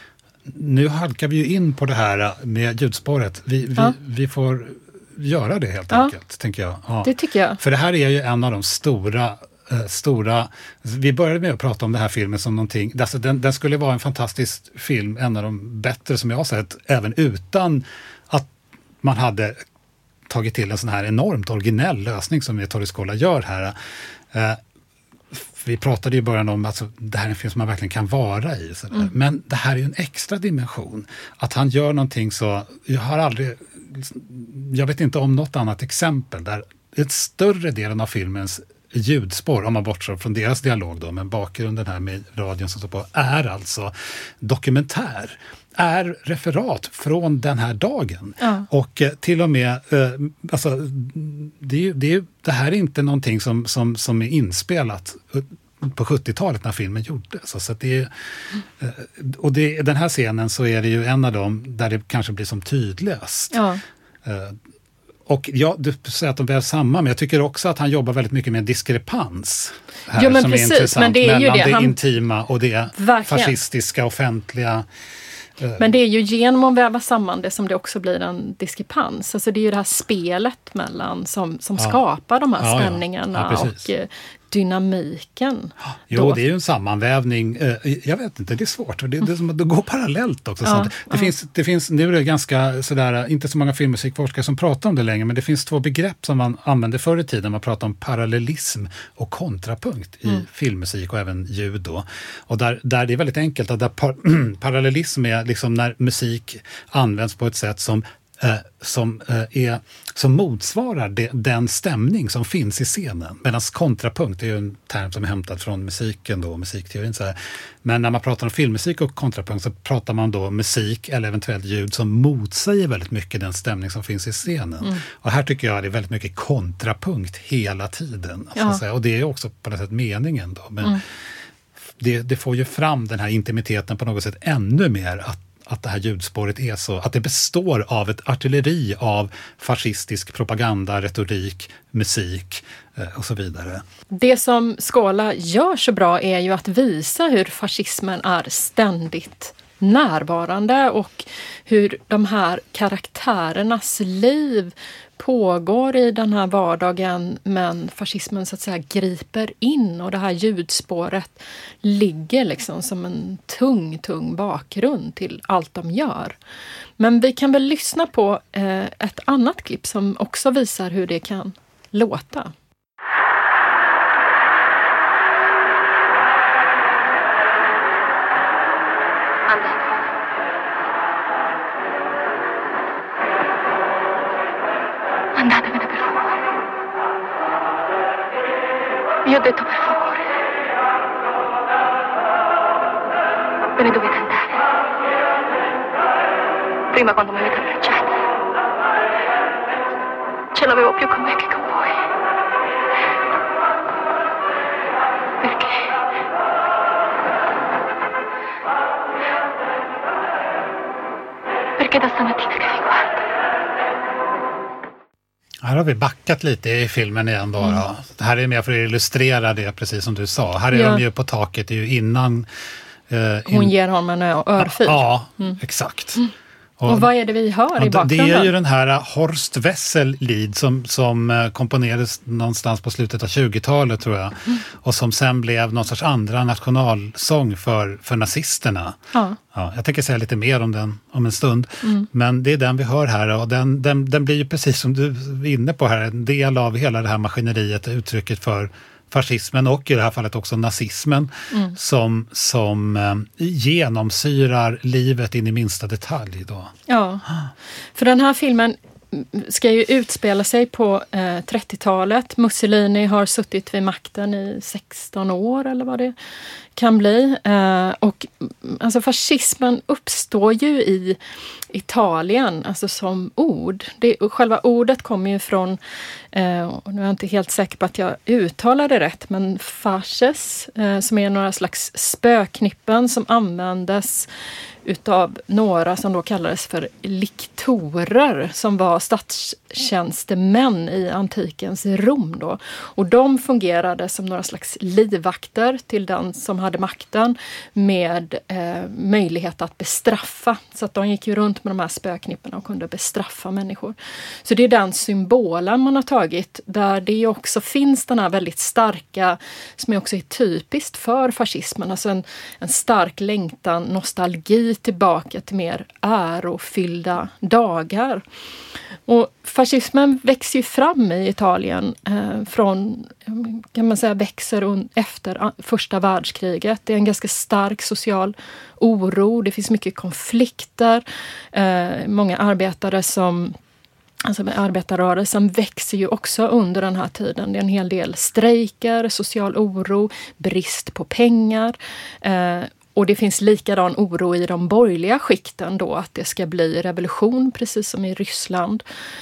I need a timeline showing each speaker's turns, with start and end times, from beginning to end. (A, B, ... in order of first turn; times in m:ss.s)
0:00.4-0:18.5 A
0:07.0-0:07.6 B
0:19.0-0:19.6 A
0:20.3-0:23.7 A
0:24.3-0:24.6 A
0:25.3-0:58.1 A
0:48.4-0:48.7 B
0:58.8-1:03.6 A
1:03.5-1:03.8 B
1:04.2-1:04.6 A
1:05.3-1:14.9 A
1:10.1-1:12.0 B
1:13.0-1:13.6 B
1:15.8-1:26.4 B
1:22.6-1:23.9 A
1:26.1-2:11.0 A
1:30.6-1:31.3 B
2:08.6-2:08.8 B
2:12.0-2:23.8 A
2:24.1-2:46.4 B
2:47.0-2:52.5 B
2:59.5-2:59.8 C
3:05.4-3:06.4 C
3:09.2-3:10.2 C
3:13.7-3:14.5 C
3:16.9-3:18.2 C
3:20.5-3:22.0 C
3:25.4-3:25.9 C
3:31.8-3:33.2 C
3:35.6-3:42.5 A
3:40.7-3:41.0 B
3:43.1-3:43.7 A
3:43.5-3:45.6 B
3:44.6-3:46.2 A
3:46.8-3:47.1 A
3:46.8-3:48.5 B
3:47.8-3:59.0 A
3:59.1-3:59.4 B
3:59.5-4:16.7 A
4:16.9-4:17.2 B
4:17.9-4:26.1 B
4:26.8-4:31.2 B
4:31.7-4:35.8 B
4:36.3-4:44.3 B
4:44.8-5:18.2 B
5:19.0-5:33.6 B
5:34.2-5:48.8 B